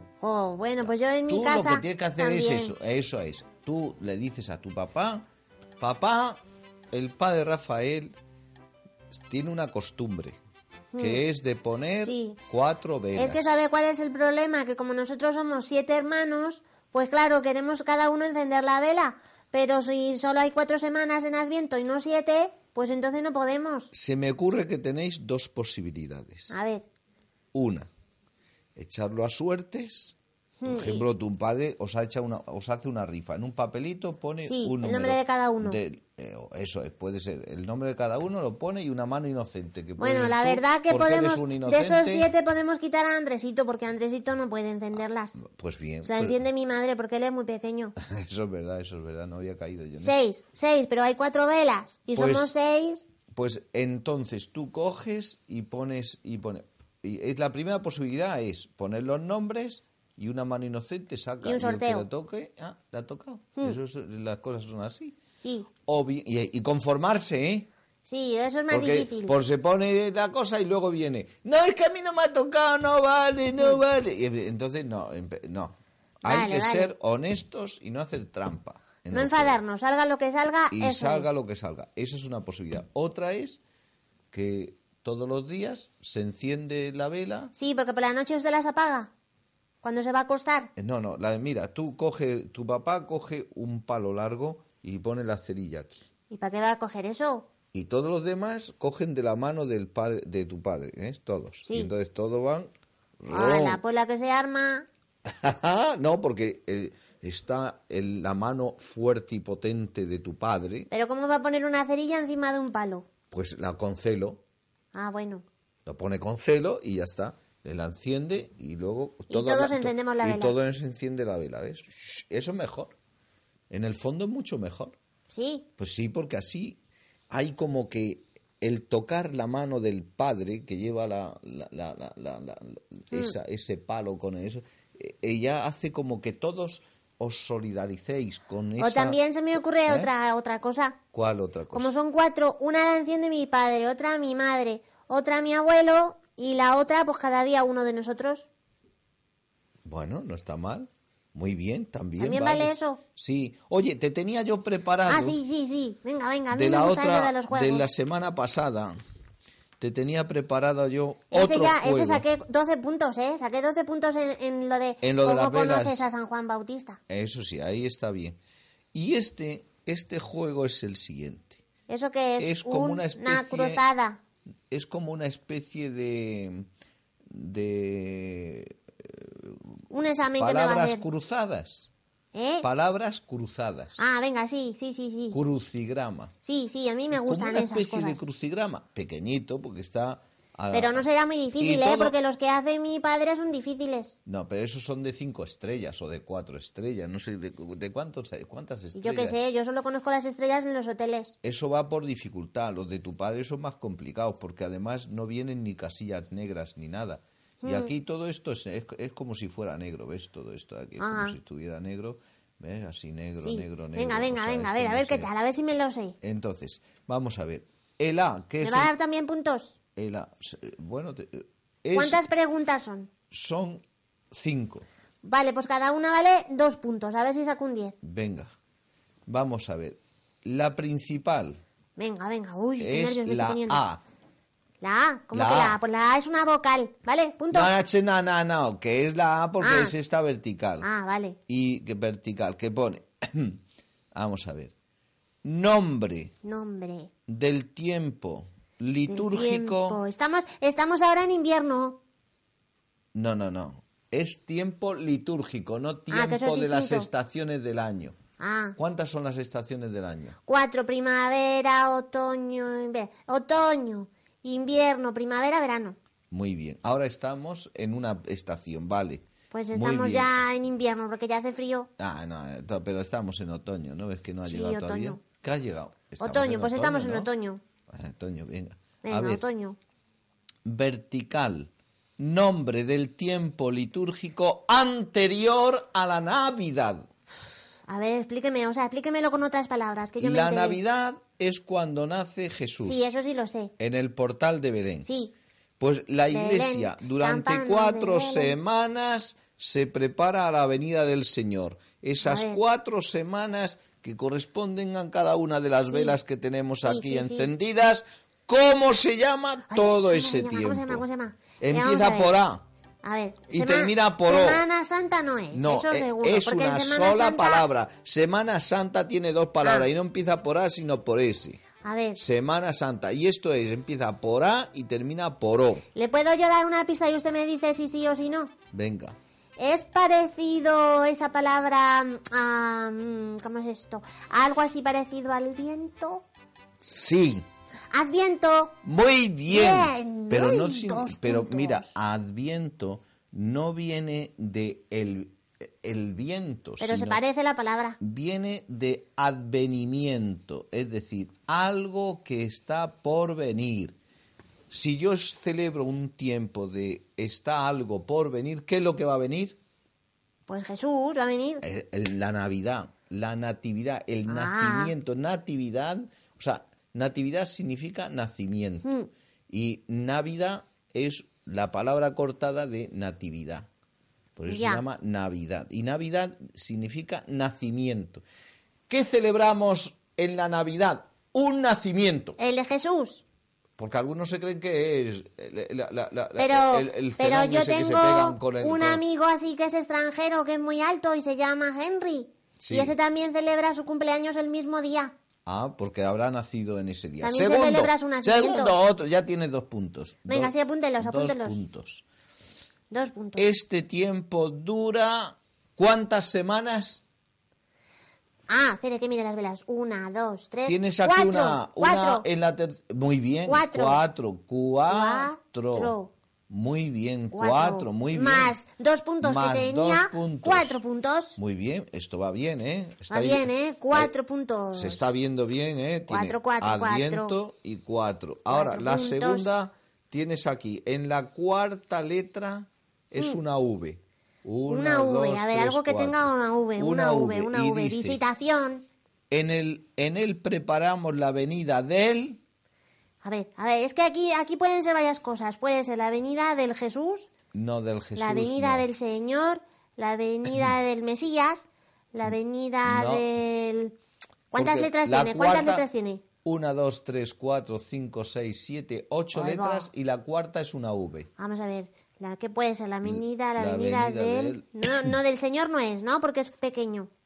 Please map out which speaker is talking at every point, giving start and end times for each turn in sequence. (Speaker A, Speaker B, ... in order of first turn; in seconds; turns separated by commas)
Speaker A: 0.2-2.7, Speaker B: 0.8-5.2, Speaker B: 5.8-6.4, Speaker B: 6.9-8.2, Speaker B: 9.1-10.4, Speaker A: 10.9-11.2, Speaker B: 11.0-13.6, Speaker A: 12.0-12.4, Speaker A: 13.2-23.9, Speaker B: 23.9-26.5, Speaker A: 26.5-26.9, Speaker B: 27.5-27.9, Speaker B: 28.8-30.2, Speaker A: 30.6-31.1, Speaker B: 30.7-42.3, Speaker A: 34.5-35.8, Speaker A: 40.0-45.4, Speaker B: 45.4-46.4, Speaker A: 46.0-47.9, Speaker B: 48.0-50.2, Speaker A: 50.0-53.0, Speaker B: 52.1-52.5, Speaker B: 53.3-65.2, Speaker A: 61.4-62.1, Speaker A: 65.4-65.7, Speaker B: 65.9-67.7, Speaker A: 68.1-69.4, Speaker B: 68.7-79.6, Speaker A: 76.2-76.9, Speaker A: 79.1-81.3, Speaker B: 80.7-83.6, Speaker B: 84.3-87.5, Speaker A: 87.5-89.1, Speaker A: 89.8-90.7, Speaker B: 90.8-96.0, Speaker A: 96.3-97.5, Speaker B: 97.7-102.7, Speaker A: 101.7-101.9, Speaker B: 103.2-103.8, Speaker A: 103.3-104.9, Speaker B: 105.3-110.9, Speaker A: 110.9-113.1, Speaker B: 113.3-114.4, Speaker A: 114.9-115.5, Speaker B: 115.9-123.0, Speaker A: 119.3-120.6, Speaker B: 123.7-125.0, Speaker A: 125.3-125.7, Speaker B: 125.8-126.8, Speaker B: 127.3-139.2, Speaker A: 138.8-141.0, Speaker B: 139.9-140.1, Speaker B: 141.1-141.9, Speaker A: 141.7-148.5, Speaker B: 149.8-155.4, Speaker A: 152.2-153.0, Speaker A: 155.1-157.9, Speaker B: 156.5-159.0, Speaker B: 159.8-162.2, Speaker A: 161.3-167.0, Speaker B: 165.0-166.1, Speaker B: 167.1-168.4, Speaker B: 168.9-171.6, Speaker A: 171.9-174.2, Speaker B: 172.4-173.8, Speaker B: 174.7-176.7, Speaker B: 177.3-179.7, Speaker A: 179.9-181.0, Speaker B: 180.4-181.9, Speaker A: 182.3-182.7, Speaker B: 182.6-184.0, Speaker A: 184.0-185.4, Speaker B: 185.3-186.3, Speaker A: 186.4-188.2, Speaker B: 187.1-191.0, Speaker A: 190.7-194.2, Speaker B: 191.6-192.2, Speaker B: 194.3-199.4, Speaker A: 199.0-201.3, Speaker B: 201.4-215.3, Speaker A: 207.6-207.9, Speaker A: 211.0-211.3, Speaker A: 213.4-216.2, Speaker B: 216.2-218.9, Speaker A: 218.6-219.7, Speaker B: 220.0-222.2, Speaker A: 221.9-223.1, Speaker B: 223.3-224.9, Speaker A: 225.2-227.9, Speaker B: 228.0-228.5, Speaker B: 229.3-231.6, Speaker A: 232.0-233.8, Speaker B: 232.8-234.0, Speaker A: 234.8-237.7, Speaker B: 235.3-235.8, Speaker B: 237.5-240.9, Speaker A: 239.6-239.9, Speaker A: 240.8-241.4, Speaker B: 241.5-243.6, Speaker B: 244.1-244.8, Speaker B: 245.4-246.3, Speaker A: 246.4-247.1, Speaker B: 247.3-250.0, Speaker A: 249.1-252.0, Speaker B: 253.1-258.2, Speaker A: 256.1-257.1, Speaker A: 258.4-258.8, Speaker B: 258.8-260.4, Speaker A: 260.5-266.0, Speaker B: 266.3-270.4, Speaker A: 269.5-271.9, Speaker B: 272.0-277.3, Speaker A: 274.5-275.2, Speaker A: 276.2-277.6, Speaker B: 277.9-279.4, Speaker A: 279.0-279.8, Speaker B: 280.6-287.1, Speaker A: 287.9-290.8, Speaker B: 290.2-293.0, Speaker A: 292.8-293.7, Speaker B: 293.8-295.1, Speaker A: 295.1-295.3, Speaker B: 295.8-311.1, Speaker A: 296.3-298.6, Speaker A: 302.2-302.6, Speaker A: 305.9-306.2, Speaker A: 306.8-307.5, Speaker A: 309.7-312.4, Speaker B: 311.6-312.6, Speaker A: 313.0-317.7, Speaker B: 313.5-314.6, Speaker B: 315.5-321.6, Speaker A: 319.6-319.9, Speaker A: 321.8-322.2, Speaker B: 322.2-325.8, Speaker A: 325.9-328.5, Speaker B: 328.7-329.2, Speaker A: 329.6-336.2, Speaker B: 336.8-337.5, Speaker A: 337.9-338.7, Speaker B: 338.8-347.2, Speaker A: 339.5-341.9, Speaker A: 346.8-348.0, Speaker B: 348.0-354.0, Speaker B: 354.7-359.6, Speaker A: 360.5-361.6, Speaker B: 361.6-368.9, Speaker A: 364.3-364.9, Speaker A: 368.8-369.1, Speaker B: 369.5-373.7, Speaker B: 374.4-378.2, Speaker A: 374.5-374.8, Speaker B: 378.9-382.4, Speaker A: 382.4-383.2, Speaker B: 383.8-389.0, Speaker A: 386.4-395.1, Speaker B: 392.6-392.9, Speaker B: 395.5-402.0, Speaker A: 397.2-398.7, Speaker A: 400.3-401.6, Speaker A: 402.9-403.5, Speaker B: 403.4-407.0, Speaker A: 408.5-412.2, Speaker B: 410.7-415.9, Speaker A: 413.5-414.0, Speaker A: 414.9-416.1, Speaker B: 416.5-418.5, Speaker A: 417.3-421.4, Speaker B: 419.2-420.8, Speaker B: 421.4-424.1, Speaker A: 423.1-425.1, Speaker B: 424.8-438.2, Speaker A: 426.1-427.4, Speaker A: 428.5-429.6, Speaker A: 434.7-438.9, Speaker B: 439.3-442.4, Speaker A: 443.2-447.3, Speaker B: 447.5-448.9, Speaker A: 448.2-454.0, Speaker B: 452.9-453.3, Speaker A: 454.5-456.2, Speaker B: 454.6-455.9, Speaker B: 456.4-461.3, Speaker A: 459.3-459.9, Speaker A: 461.4-467.1, Speaker B: 463.0-465.1